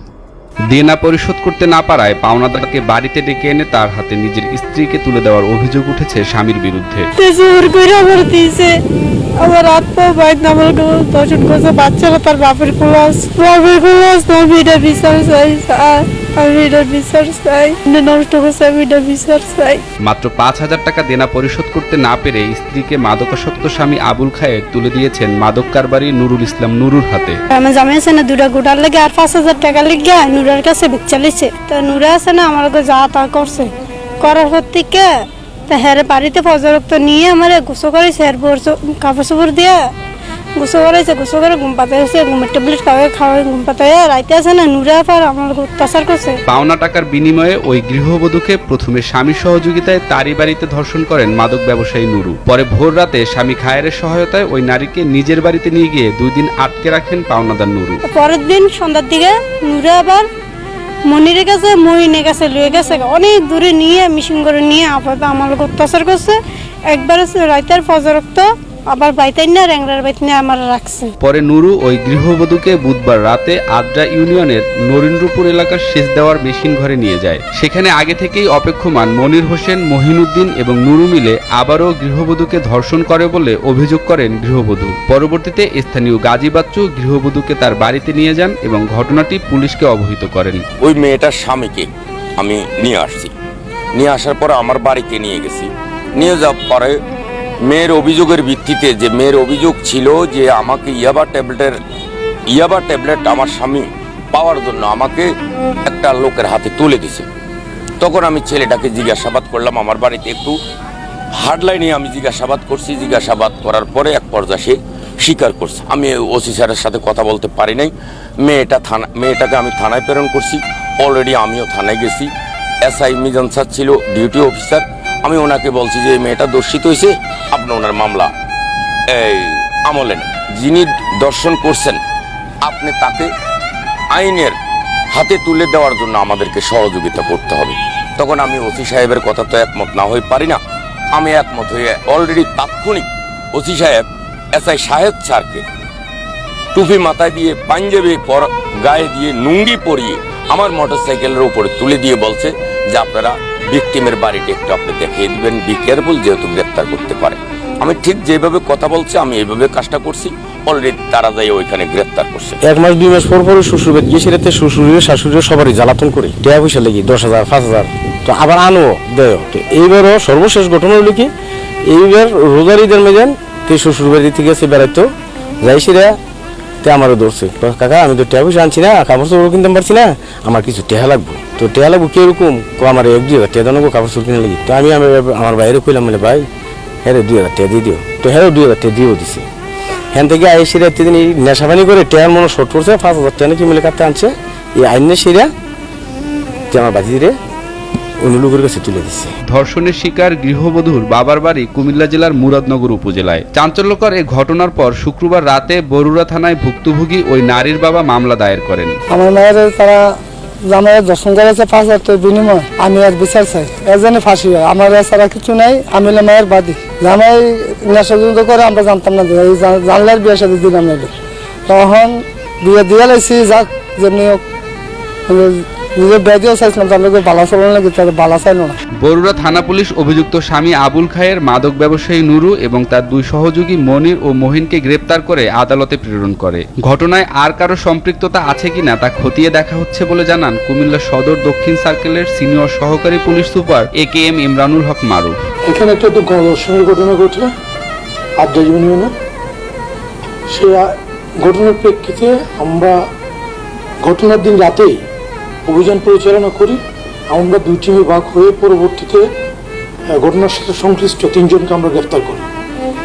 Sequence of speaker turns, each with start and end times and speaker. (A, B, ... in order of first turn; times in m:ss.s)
0:00.7-0:07.1 A
0:07.2-0:08.7 B
0:09.4-0:19.8 B
0:20.0-0:27.4 A
0:27.5-0:33.7 B
0:34.2-0:35.1 B
0:35.7-0:39.8 B
0:40.6-0:46.4 B
0:46.5-0:58.0 A
0:58.1-1:00.2 B
1:01.1-1:06.4 B
1:06.9-1:11.1 B
1:11.2-1:30.6 A
1:30.8-1:33.3 C
1:33.9-1:37.0 C
1:37.6-1:41.8 C
1:42.5-1:45.3 C
1:45.8-1:47.2 C
1:48.0-1:50.6 C
1:51.3-2:02.3 C
2:02.8-2:08.3 C
2:09.1-2:12.0 C
2:12.6-2:13.3 C
2:14.1-2:14.6 C
2:15.1-2:20.6 C
2:21.1-2:25.6 C
2:26.7-2:42.6 C
2:42.6-2:51.3 D
2:51.8-2:55.1 D
2:55.6-2:56.2 D
2:56.8-3:06.5 D
3:07.0-3:09.5 D
3:10.1-3:15.5 D
3:16.7-3:17.4 D
3:18.2-3:19.3 D
3:19.5-3:28.9 A
3:29.1-3:30.0 E
3:30.7-3:41.1 E
3:41.7-3:44.4 E
3:45.3-3:48.8 E
3:49.0-4:05.3 A
4:05.7-4:07.5 F
4:08.4-4:09.1 F
4:10.5-4:13.0 F
4:14.0-4:15.0 F
4:15.6-4:19.3 F
4:20.1-4:22.5 F